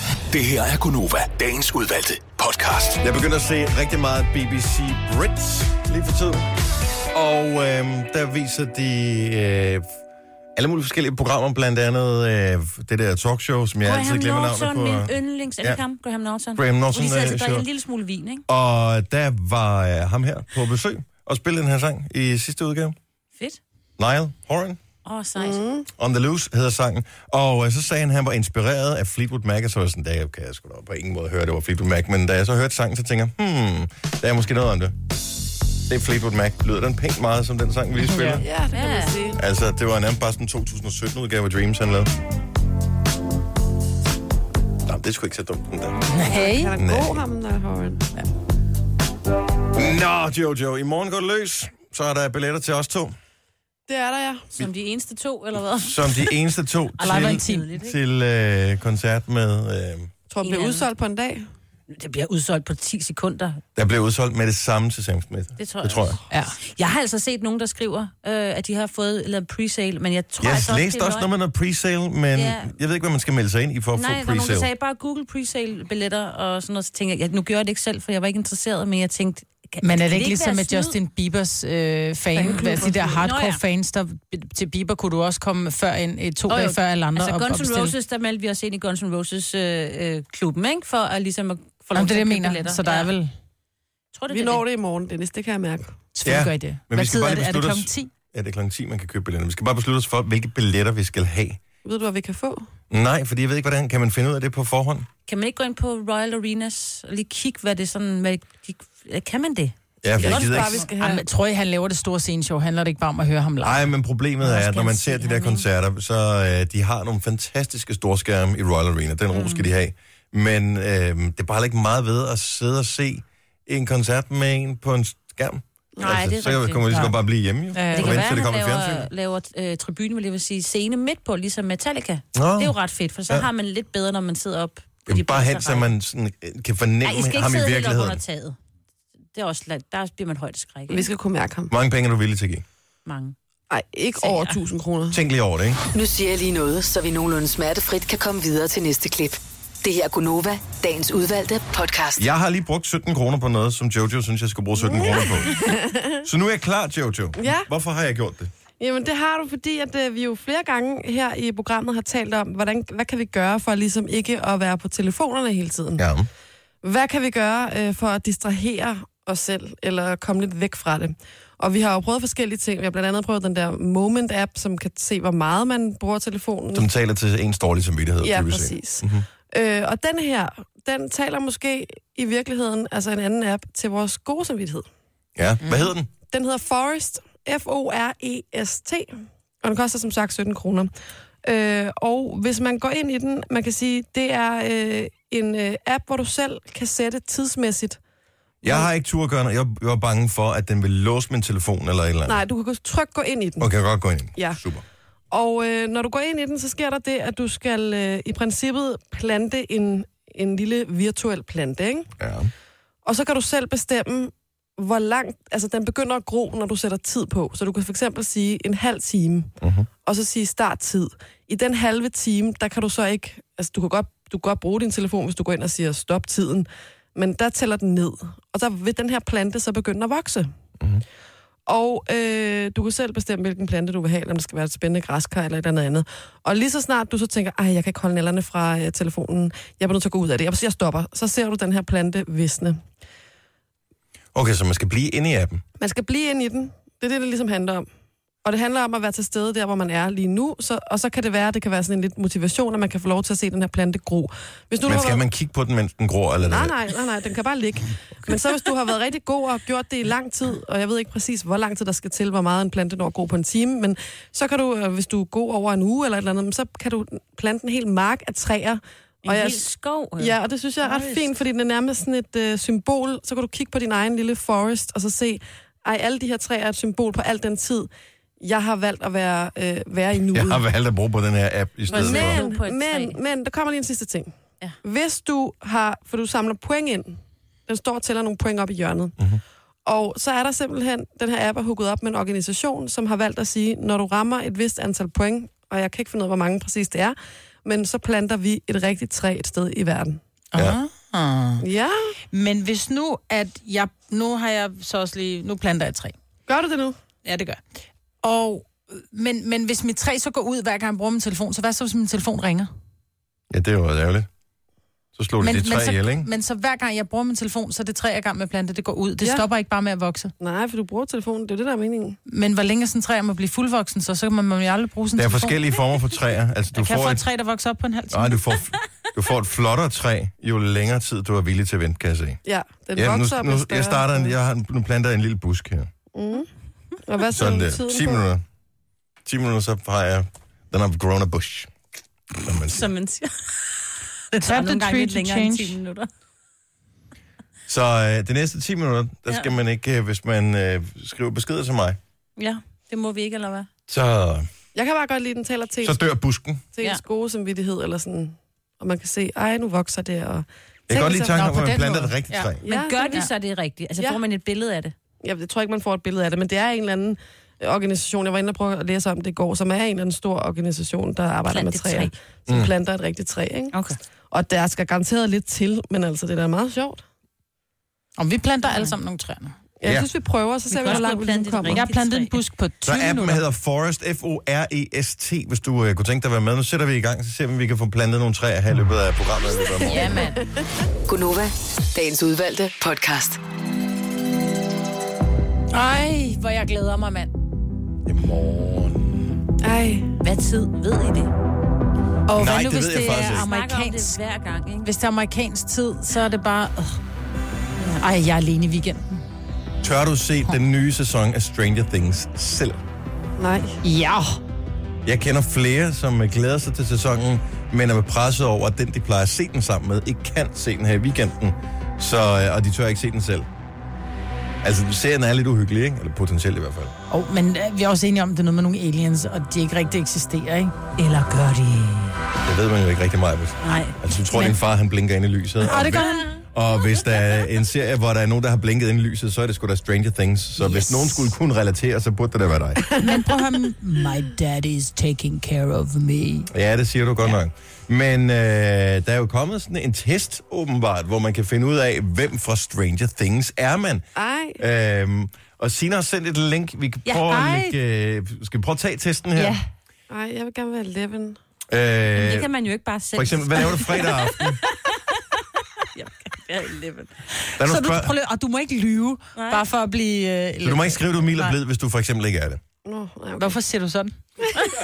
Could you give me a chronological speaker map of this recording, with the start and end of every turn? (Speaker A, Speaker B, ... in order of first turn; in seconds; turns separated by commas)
Speaker A: 0.3-3.0, Speaker B: 3.0-6.5, Speaker B: 7.1-9.9, Speaker B: 10.6-15.8, Speaker C: 13.8-18.4, Speaker B: 16.6-17.7, Speaker B: 18.5-23.0, Speaker B: 24.0-24.8, Speaker C: 25.1-25.6, Speaker D: 25.4-25.9, Speaker B: 26.0-35.0, Speaker B: 35.9-38.5, Speaker C: 38.0-39.2, Speaker D: 38.4-39.4, Speaker B: 39.4-42.1, Speaker B: 44.9-46.0, Speaker E: 46.1-46.7, Speaker D: 46.2-48.1, Speaker B: 46.8-47.2, Speaker B: 49.8-53.1, Speaker D: 53.9-54.5, Speaker C: 54.5-56.0, Speaker B: 55.8-60.1, Speaker E: 57.0-57.6, Speaker C: 57.0-58.0, Speaker D: 60.3-61.5, Speaker C: 60.4-60.9, Speaker C: 61.9-63.6, Speaker B: 63.8-66.2, Speaker C: 65.6-71.3, Speaker E: 66.3-66.6, Speaker B: 70.4-74.7, Speaker C: 72.3-72.8, Speaker C: 73.9-81.0, Speaker E: 79.8-87.9, Speaker D: 82.3-83.2, Speaker C: 83.2-83.6, Speaker C: 86.5-93.1, Speaker E: 91.9-93.3, Speaker C: 94.1-94.7, Speaker D: 94.3-96.0, Speaker E: 96.2-98.1, Speaker B: 96.2-101.6, Speaker D: 101.8-102.7, Speaker B: 102.9-105.1, Speaker C: 105.3-110.8, Speaker B: 110.0-110.8, Speaker D: 110.2-111.2, Speaker E: 110.9-113.8, Speaker B: 113.6-129.1, Speaker E: 114.5-115.2, Speaker C: 115.0-115.6, Speaker C: 119.3-119.7, Speaker C: 126.0-126.9, Speaker E: 127.7-128.3, Speaker C: 127.9-135.9, Speaker B: 132.3-132.8, Speaker B: 135.1-138.2, Speaker C: 137.0-138.6, Speaker C: 139.3-141.1, Speaker D: 140.9-141.7, Speaker B: 141.7-142.6, Speaker C: 143.1-143.3, Speaker D: 143.7-145.2, Speaker C: 144.2-144.6, Speaker B: 145.1-145.8, Speaker F: 145.9-152.2, Speaker B: 152.2-155.6, Speaker D: 154.8-156.2, Speaker B: 156.2-158.5, Speaker D: 157.4-157.7, Speaker D: 158.8-166.1, Speaker B: 166.0-166.3, Speaker D: 166.8-176.9, Speaker B: 176.7-179.3, Speaker D: 178.2-184.9, Speaker B: 185.4-186.1, Speaker E: 185.6-185.9, Speaker D: 186.3-190.9, Speaker D: 191.4-198.0, Speaker B: 198.6-202.4, Speaker D: 202.3-203.7, Speaker B: 203.6-204.8, Speaker D: 204.3-204.6, Speaker D: 205.3-212.1, Speaker B: 212.2-212.5, Speaker D: 213.1-219.5, Speaker B: 219.6-219.9, Speaker D: 220.0-230.5, Speaker D: 231.7-242.8, Speaker B: 244.3-245.6, Speaker D: 245.8-247.9, Speaker D: 248.4-255.2, Speaker B: 254.8-256.7, Speaker D: 256.4-269.6, Speaker C: 269.2-271.3, Speaker D: 270.2-277.9, Speaker D: 278.4-280.6, Speaker B: 280.3-282.4, Speaker C: 281.9-283.2, Speaker D: 281.9-284.3, Speaker D: 284.8-289.2, Speaker D: 289.9-300.2, Speaker E: 300.5-301.6, Speaker D: 301.6-302.1, Speaker E: 302.3-306.1, Speaker D: 306.5-307.0, Speaker E: 307.2-307.6, Speaker E: 308.2-312.7, Speaker B: 313.5-314.3, Speaker B: 315.2-316.3, Speaker E: 315.4-320.3, Speaker D: 320.4-322.2, Speaker E: 322.3-325.6, Speaker B: 325.2-327.2, Speaker E: 326.8-328.4, Speaker B: 328.1-332.4, Speaker D: 332.4-334.3, Speaker B: 333.0-335.9, Speaker D: 336.1-336.5, Speaker D: 337.1-338.2, Speaker B: 337.3-338.4, Speaker B: 339.2-341.7, Speaker B: 342.4-342.9, Speaker C: 342.6-343.5, Speaker C: 344.3-346.1, Speaker E: 344.4-345.8, Speaker B: 347.7-352.0, Speaker C: 352.4-353.7, Speaker B: 353.9-354.5, Speaker D: 354.8-356.0, Speaker B: 355.8-356.6, Speaker D: 356.8-361.5, Speaker B: 360.9-362.6, Speaker E: 361.4-362.5, Speaker D: 362.6-363.3, Speaker C: 362.6-364.9, Speaker D: 365.2-373.7, Speaker C: 371.5-372.1, Speaker D: 374.3-377.0, Speaker E: 378.2-379.6, Speaker C: 378.7-378.9, Speaker D: 379.8-381.8, Speaker C: 380.7-382.4, Speaker E: 381.7-383.4, Speaker B: 382.9-390.2, Speaker D: 389.8-390.4, Speaker C: 389.8-390.4, Speaker F: 391.1-393.4, Speaker E: 395.7-397.3, Speaker B: 398.1-399.4, Speaker D: 399.6-400.1, Speaker C: 400.2-401.3, Speaker E: 402.3-404.2, Speaker B: 402.3-403.5, Speaker C: 403.1-404.9, Speaker E: 404.8-407.0, Speaker E: 408.0-409.2, Speaker B: 409.8-412.8, Speaker D: 413.4-413.8, Speaker E: 413.8-414.4, Speaker B: 415.1-423.5, Speaker B: 424.6-426.9, Speaker E: 427.1-432.1, Speaker B: 432.4-442.9, Speaker C: 433.6-434.0, Speaker E: 435.6-436.4, Speaker C: 440.7-441.1, Speaker E: 443.0-446.5, Speaker B: 446.5-454.1, Speaker D: 454.2-454.6, Speaker B: 454.6-459.6, Speaker E: 457.2-457.7, Speaker E: 459.4-459.6, Speaker D: 460.1-461.4, Speaker B: 461.7-462.5, Speaker C: 462.1-465.0, Speaker B: 463.1-464.6, Speaker C: 465.9-467.1, Speaker E: 467.5-471.5, Speaker B: 467.6-468.1, Speaker C: 469.4-469.6, Speaker B: 470.6-472.6, Speaker D: 472.9-473.6, Speaker E: 473.4-474.1